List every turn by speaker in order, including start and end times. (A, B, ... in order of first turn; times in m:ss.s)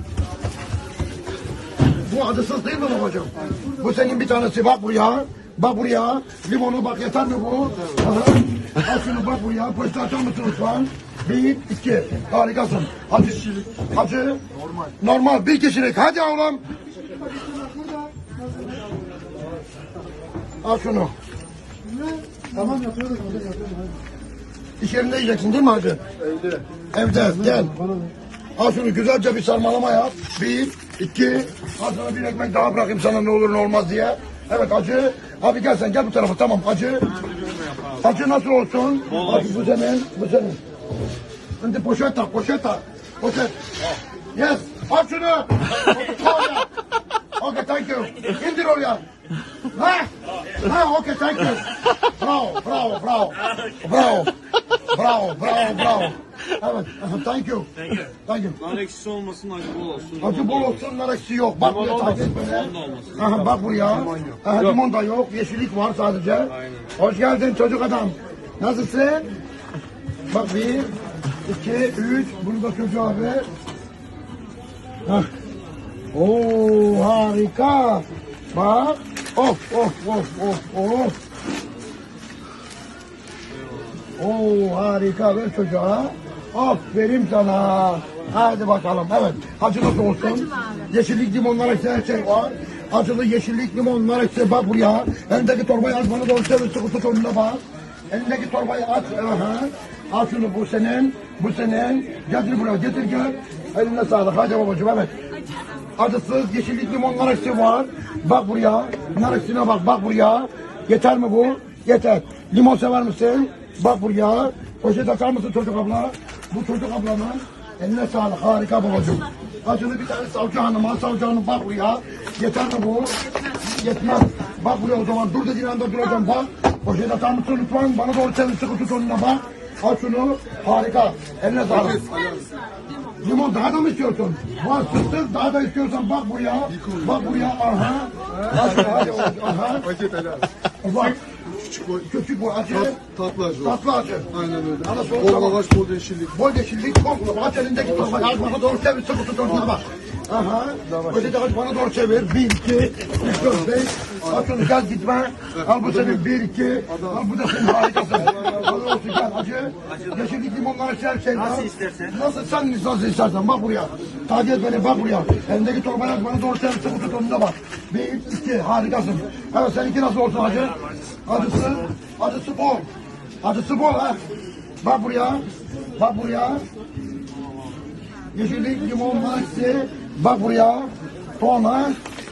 0:02.0-0:14.4 A
0:15.0-0:16.6 A
0:20.6-0:21.1 A
0:22.6-0:23.7 B
0:24.8-0:26.0 A
0:26.3-0:26.6 B
0:26.9-0:27.8 A
0:27.8-0:28.1 B
0:28.6-0:37.1 A
0:37.1-0:38.2 C
0:38.0-0:40.6 A
0:39.1-0:39.6 C
0:41.6-0:43.6 A
0:44.3-0:46.7 A
0:47.4-0:49.0 A
0:49.7-0:58.6 A
0:57.8-1:00.9 C
1:00.2-1:09.3 A
1:01.6-1:03.3 C
1:03.9-1:04.4 C
1:06.5-1:06.9 C
1:10.3-1:10.9 A
1:11.4-1:13.5 A
1:16.1-1:21.2 A
1:24.2-1:45.1 A
1:46.0-2:12.1 A
2:11.8-2:12.5 B
2:13.2-2:19.9 A
2:16.8-2:17.2 B
2:18.5-2:19.3 B
2:19.9-2:20.5 B
2:20.8-2:21.2 A
2:21.6-2:21.9 B
2:21.9-2:23.0 A
2:23.0-2:23.7 B
2:23.6-2:24.3 A
2:24.4-2:26.3 B
2:24.8-2:25.7 A
2:26.3-2:52.9 A
2:30.9-2:31.2 B
2:35.8-2:36.2 B
2:39.9-2:40.3 C
2:41.4-2:42.2 C
2:53.4-2:54.2 A
2:54.8-2:55.4 A
2:56.0-2:56.6 A
2:58.4-3:02.0 A